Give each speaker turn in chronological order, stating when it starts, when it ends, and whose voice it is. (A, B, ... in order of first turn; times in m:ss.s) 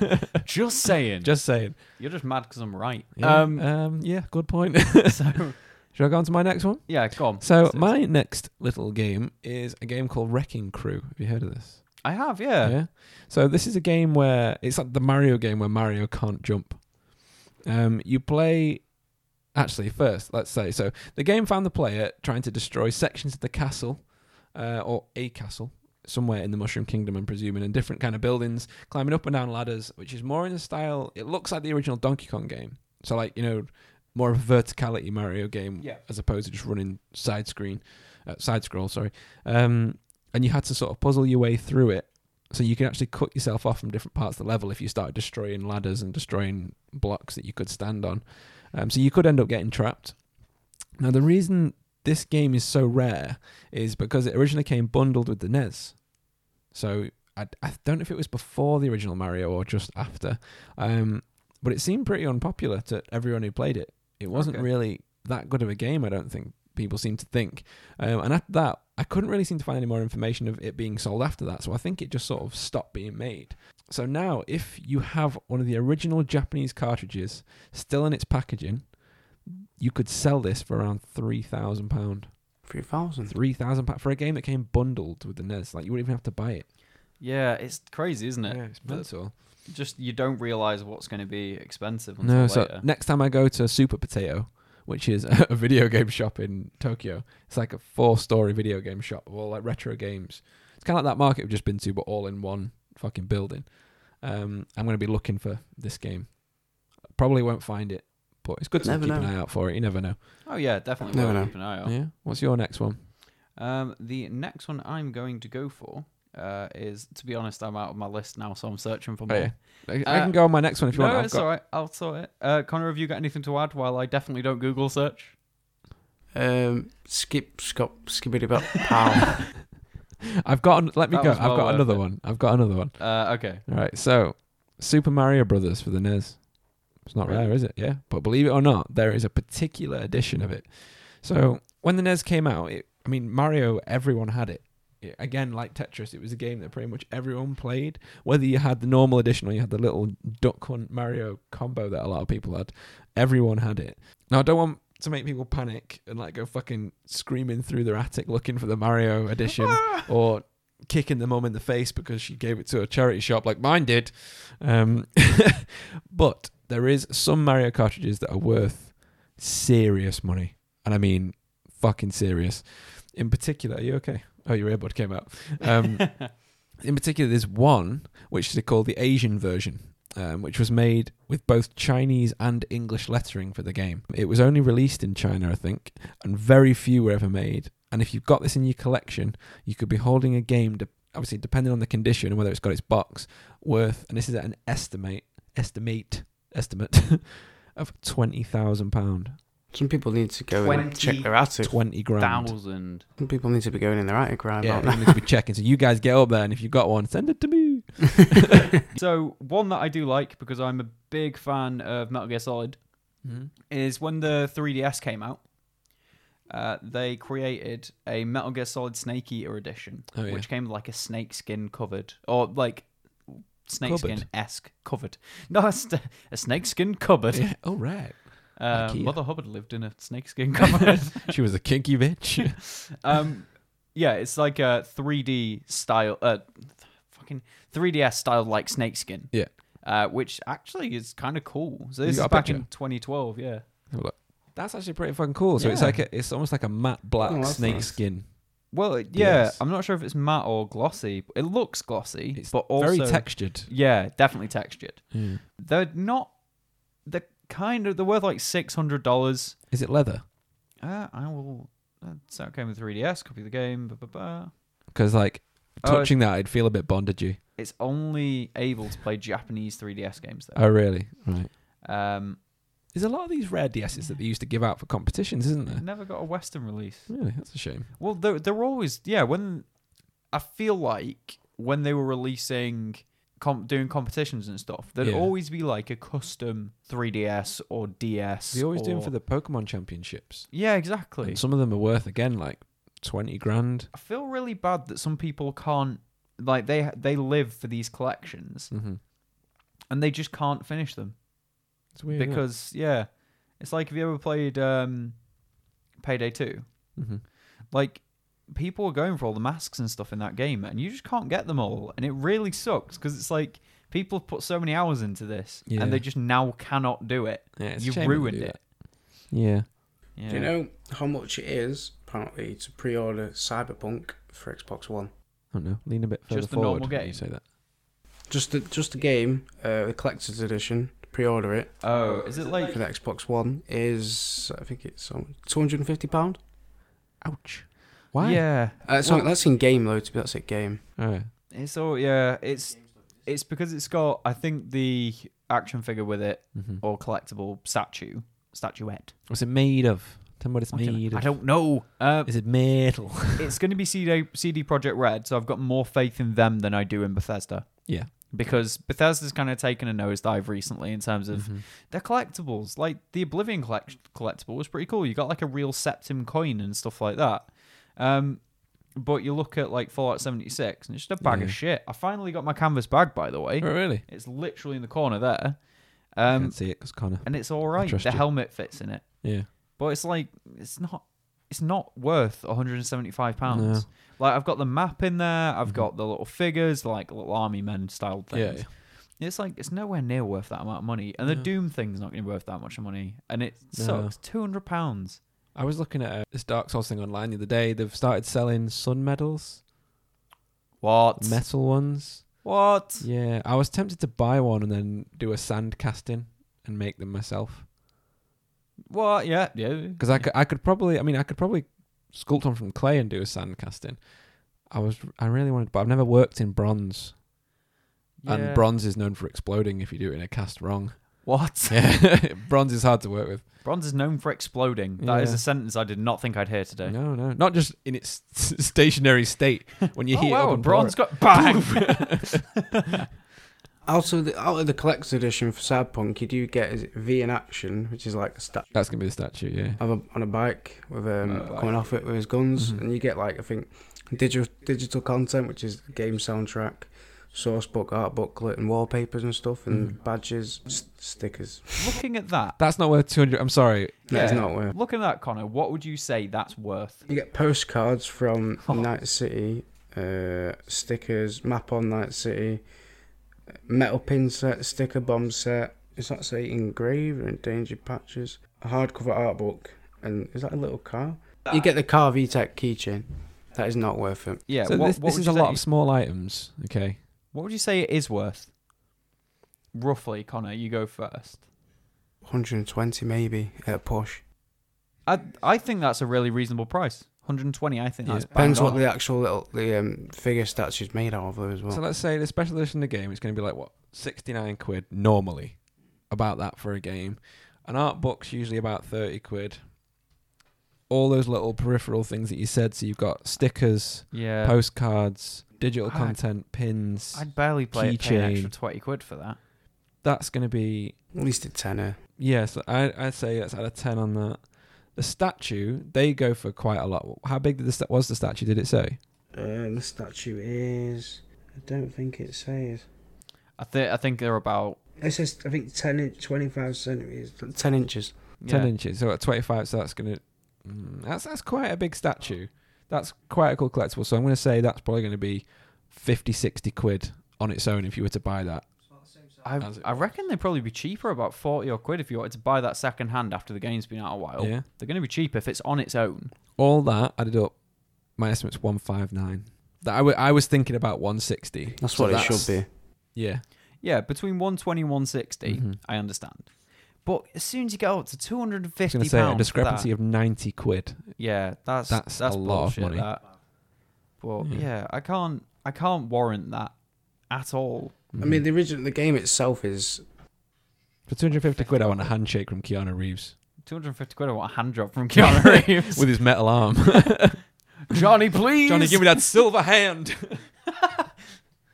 0:00.4-0:03.8 A
0:01.2-0:01.8 B
0:03.2-1:22.5 B
0:05.0-0:05.7 A
0:06.9-0:08.0 A
0:12.0-0:12.8 A
1:04.3-1:04.7 A
1:22.6-1:23.3 C
1:23.3-1:26.7 B
1:27.2-1:32.8 A
1:28.5-1:29.4 B
1:32.2-1:50.3 B
1:48.8-1:49.3 C
1:50.4-1:51.9 A
1:51.1-1:51.5 C
1:51.8-1:53.0 B
1:53.5-2:05.4 A
1:59.3-2:01.5 B
2:06.3-2:09.5 C
2:10.4-3:19.4 B
2:11.1-2:13.6 A
2:17.2-2:17.5 A
2:39.5-2:40.0 A
3:19.7-3:21.8 C
3:20.5-3:23.0 A
3:21.6-3:22.6 B
3:23.2-3:25.2 C
3:24.6-3:28.6 B
3:28.9-3:33.1 A
3:33.2-3:33.5 B
3:33.7-3:35.5 A
3:36.5-3:47.9 A
3:40.1-3:40.5 B
3:43.8-3:44.3 B
3:47.3-3:49.2 B
3:48.6-3:51.4 A
3:51.0-3:52.6 B
3:52.6-4:03.6 A
4:02.0-4:02.7 B
4:03.9-4:09.6 B
4:05.6-4:06.0 A
4:07.2-4:08.0 C
4:08.7-4:16.4 A
4:12.3-4:13.7 B
4:15.1-4:15.4 B
4:17.0-4:19.6 A
4:19.7-4:20.2 B
4:20.8-4:24.5 A
4:24.9-4:27.4 B
4:25.8-4:26.2 A
4:27.6-4:30.9 A
4:30.6-4:31.5 B
4:31.8-4:32.4 A
4:32.9-4:35.8 B
4:35.7-4:37.4 A
4:37.1-4:37.9 B
4:37.9-4:49.1 A
4:45.0-4:45.3 B
4:48.5-4:50.5 B
4:50.5-4:51.4 A
4:51.2-4:53.9 B
4:53.9-4:58.7 A
4:58.7-4:59.0 B
4:59.9-5:01.2 A
5:01.9-5:02.4 B
5:02.1-5:05.3 A
5:06.0-5:18.6 A
5:07.0-5:07.2 B
5:15.7-5:16.0 B
5:17.6-5:19.7 B
5:20.2-5:20.5 A
5:20.3-5:25.1 C
5:25.5-5:27.4 B
5:26.3-5:27.2 A
5:28.3-5:31.9 C
5:31.8-5:32.8 A
5:32.6-5:36.4 C
5:37.2-5:38.5 B
5:38.2-5:39.3 A
5:38.8-5:40.9 C
5:41.0-5:41.3 B
5:41.5-5:49.2 A
5:46.5-5:46.8 B
5:49.3-5:51.6 B
5:50.7-5:52.5 A
5:52.2-5:53.5 B
5:53.4-6:35.2 A
6:01.3-6:01.6 B
6:11.2-6:11.6 B
6:13.6-6:14.0 B
6:16.2-6:18.3 B
6:19.2-6:19.5 B
6:23.5-6:23.9 B
6:28.3-6:28.7 B
6:33.7-6:34.1 B
6:35.5-6:39.6 B
6:40.8-6:41.5 A
6:41.2-6:42.4 B
6:42.4-6:43.1 A
6:43.0-6:47.7 B
6:48.9-6:50.3 A
6:50.0-6:57.2 B
6:58.2-6:58.6 A
6:58.2-7:03.5 B
7:01.2-7:01.8 A
7:03.6-7:07.0 A
7:05.0-7:05.4 B
7:06.8-7:12.3 B
7:10.0-7:13.1 A
7:13.8-7:18.7 C
7:18.7-7:19.8 B
7:19.8-7:32.0 C
7:21.2-7:21.9 A
7:22.6-7:22.8 B
7:29.7-7:29.9 B
7:31.8-7:32.6 A
7:32.6-7:34.4 B
7:34.1-7:34.8 C
7:34.1-7:37.0 A
7:37.1-7:42.6 C
7:43.6-7:54.4 C
7:54.5-7:55.6 A
7:54.6-7:57.0 B
7:57.3-7:58.5 A
7:59.7-8:01.4 A
8:02.2-8:04.2 C
8:05.0-8:08.8 A
8:08.3-8:11.8 C
8:11.7-8:19.8 B
8:20.9-8:28.5 B
8:24.1-8:24.6 A
8:25.8-8:26.2 A
8:27.1-8:29.4 A
8:30.0-8:31.0 B
8:31.1-8:32.0 C
8:32.2-8:39.0 B
8:39.3-8:42.9 C
8:43.6-8:44.8 A
8:45.0-8:48.2 C
8:48.4-8:48.7 A
8:48.5-8:58.7 B
8:59.4-9:06.3 A
8:59.6-9:00.0 B
9:04.4-9:04.6 B
9:06.6-9:13.4 B
9:11.8-9:12.7 C
9:13.8-9:19.9 A
9:15.4-9:15.8 B
9:18.9-9:21.2 B
9:21.2-9:23.4 A
9:21.9-9:23.1 B
9:24.2-9:26.7 A
9:27.3-9:28.0 A
9:28.1-9:28.4 B
9:28.2-9:30.0 C
9:31.1-9:33.3 B
9:33.6-9:36.1 A
9:35.2-9:38.0 B
9:37.9-9:39.4 A
9:38.6-9:40.5 B
9:40.8-9:41.0 A